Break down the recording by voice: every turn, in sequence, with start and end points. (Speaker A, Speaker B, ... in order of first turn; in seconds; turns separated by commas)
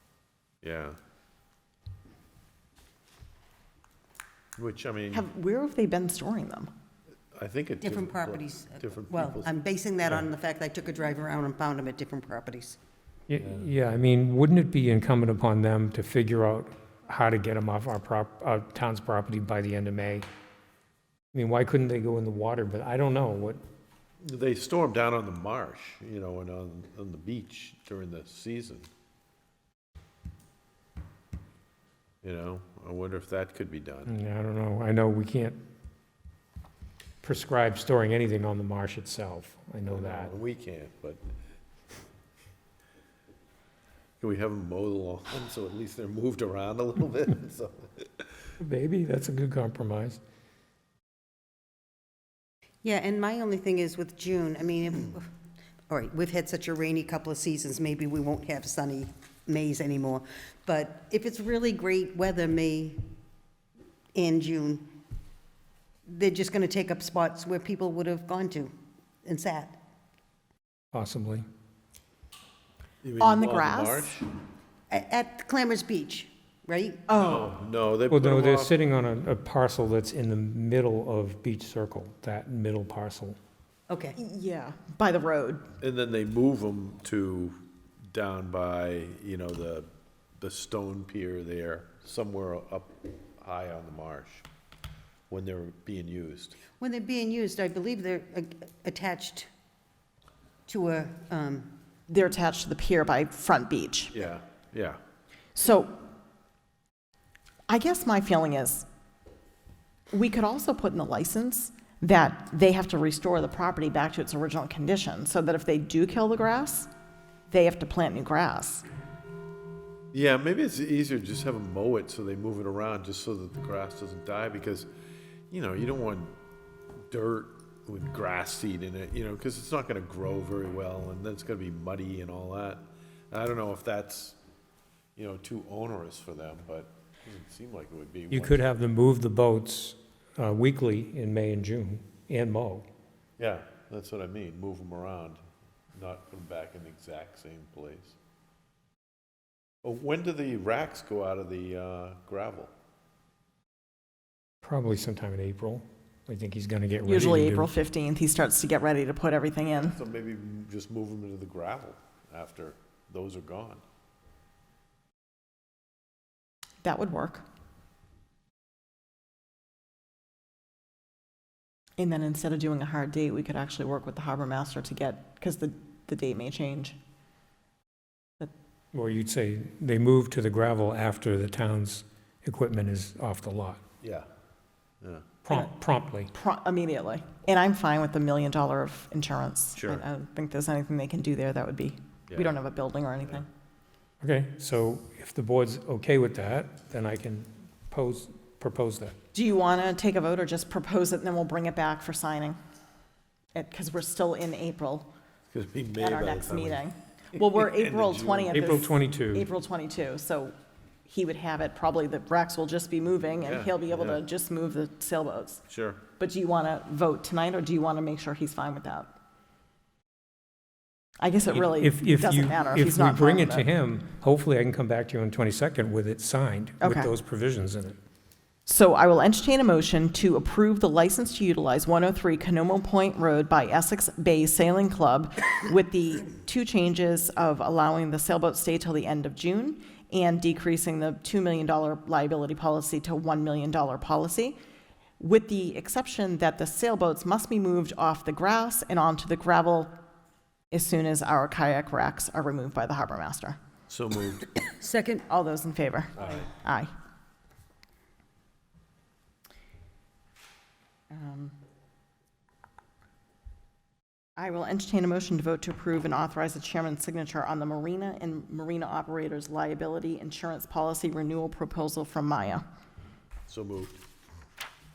Speaker A: 0.6-1.0, Speaker A: 4.6-5.3, Speaker B: 5.1-6.7, Speaker A: 7.3-9.5, Speaker C: 7.8-12.8, Speaker D: 13.3-20.3, Speaker D: 21.3-23.6, Speaker A: 24.2-28.9, Speaker A: 32.2-34.1, Speaker D: 34.1-35.6, Speaker D: 37.2-40.3, Speaker A: 39.9-41.2, Speaker A: 44.2-48.3, Speaker D: 48.6-50.2, Speaker C: 52.8-55.3, Speaker C: 55.9-63.0, Speaker C: 64.1-64.9, Speaker C: 66.1-68.7, Speaker C: 69.2-69.8, Speaker D: 70.9-71.4, Speaker A: 73.0-74.2, Speaker B: 73.2-74.2, Speaker C: 74.9-77.0, Speaker B: 77.1-77.5, Speaker A: 77.1-78.8, Speaker D: 78.1-83.4, Speaker C: 83.9-84.2, Speaker B: 84.2-85.7, Speaker A: 85.8-87.6, Speaker A: 88.1-94.5, Speaker A: 95.3-96.6, Speaker C: 96.8-99.5, Speaker C: 100.7-101.7, Speaker B: 102.1-104.1, Speaker A: 104.1-105.0, Speaker B: 105.5-106.0, Speaker B: 107.7-108.8, Speaker B: 110.1-116.9, Speaker B: 117.5-118.8, Speaker A: 120.1-124.9, Speaker A: 125.5-126.3, Speaker A: 127.1-134.4, Speaker A: 135.2-138.6, Speaker D: 138.3-142.8, Speaker A: 143.4-145.4, Speaker A: 145.9-148.2, Speaker A: 149.8-152.7, Speaker D: 154.6-157.7, Speaker B: 157.0-159.9, Speaker A: 159.7-163.8, Speaker B: 166.8-167.4, Speaker B: 172.0-176.9, Speaker D: 178.9-183.8, Speaker A: 184.0-184.3, Speaker D: 185.4-186.3, Speaker B: 186.3-193.5, Speaker A: 189.7-190.0, Speaker A: 192.3-192.6, Speaker D: 194.2-199.2, Speaker B: 199.3-202.6, Speaker B: 203.5-205.1, Speaker A: 205.5-208.8, Speaker B: 206.0-210.5, Speaker D: 208.5-209.5, Speaker B: 211.1-215.6, Speaker A: 213.4-214.2, Speaker A: 215.7-216.0, Speaker B: 216.2-219.1, Speaker B: 221.2-223.7, Speaker D: 221.5-228.0, Speaker B: 226.8-227.1, Speaker B: 228.7-244.6, Speaker B: 245.2-249.9, Speaker B: 250.7-253.6, Speaker A: 253.9-254.5, Speaker C: 254.7-255.2, Speaker B: 255.3-256.9, Speaker A: 256.2-256.5, Speaker B: 261.1-261.6, Speaker B: 264.4-272.6, Speaker A: 273.5-274.0